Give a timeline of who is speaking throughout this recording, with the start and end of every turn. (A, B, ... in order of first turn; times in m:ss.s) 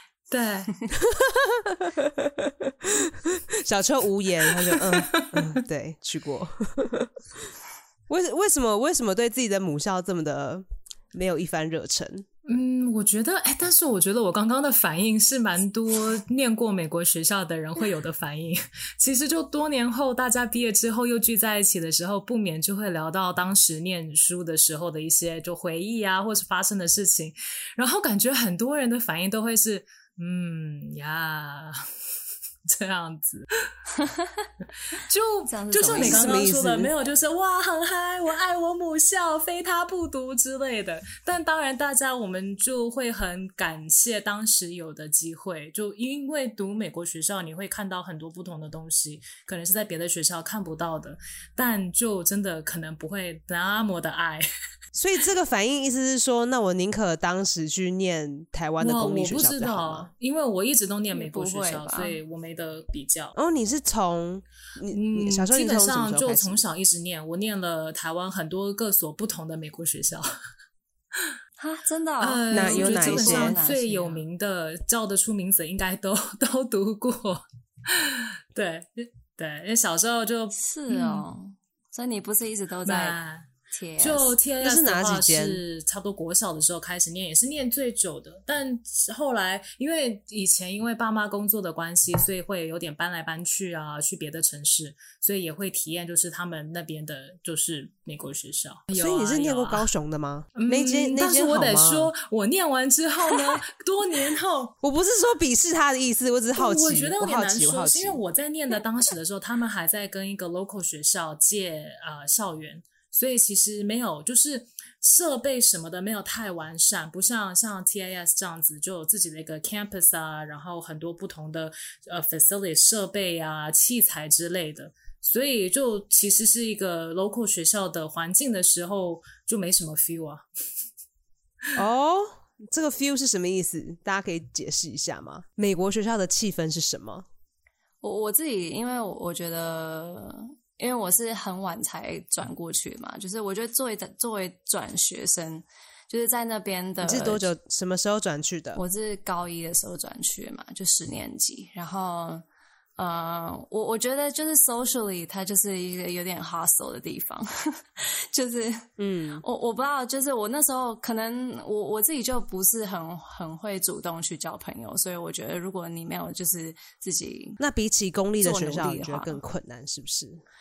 0:00.3-0:00.7 A
0:01.0-0:07.1 B
0:04.6-0:05.6 A
0:08.1-0:12.2 B
0:12.4-0:31.8 A
0:32.7-0:33.7 A
0:33.9-0:34.5 C
0:34.9-0:54.4 A
0:35.5-0:36.5 C
0:35.9-0:36.9 B
0:54.9-1:00.1 B
0:58.8-1:03.3 A
1:01.1-1:02.2 C
1:03.3-1:06.6 B
1:04.9-1:10.3 A
1:11.6-1:14.2 C
1:12.2-1:21.2 A
1:12.5-1:13.6 B
1:20.6-1:23.2 C
1:22.8-1:23.5 A
1:23.7-1:24.4 C
1:24.0-1:39.9 A
1:24.6-1:25.6 B
1:38.9-1:42.1 B
1:40.5-1:44.8 A
1:44.8-1:48.2 B
1:46.6-2:10.4 A
2:11.7-2:17.2 B
2:18.0-2:27.5 C
2:27.0-2:28.8 B
2:28.7-2:32.4 C
2:33.0-2:38.9 C
2:39.0-2:39.4 B
2:39.4-2:47.6 C
2:47.6-2:50.4 B
2:48.4-2:49.4 C